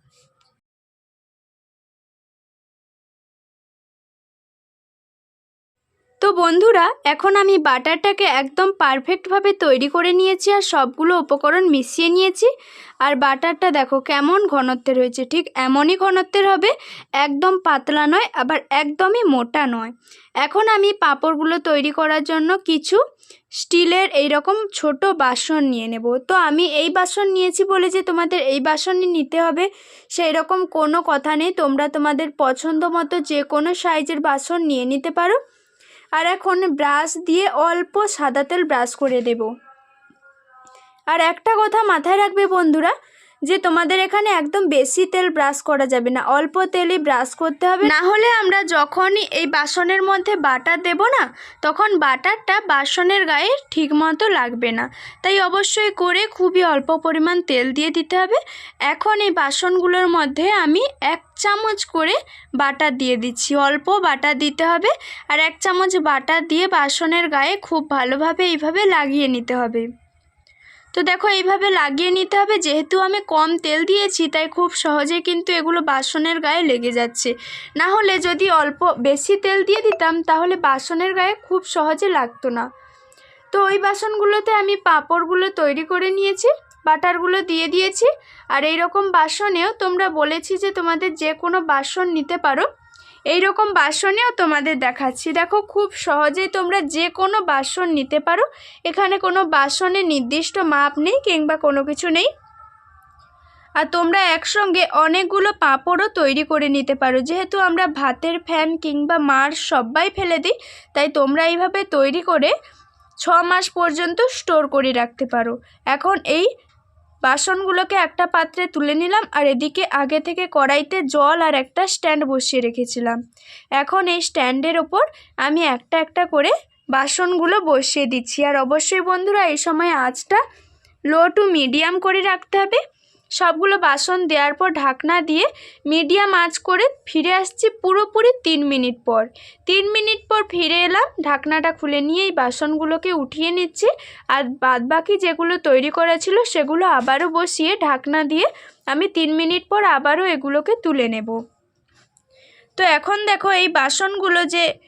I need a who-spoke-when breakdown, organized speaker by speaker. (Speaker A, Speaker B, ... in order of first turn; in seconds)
Speaker A: 6.2-12.5, 13.0-19.9, 20.4-23.0, 23.6-35.4, 36.2-39.5, 41.1-42.9, 43.5-69.9, 70.9-82.7, 83.5-92.7, 93.3-102.3, 103.8-112.5, 113.2-116.5, 117.3-123.2, 123.8-130.4, 131.1-132.8, 133.4-151.4, 152.8-154.7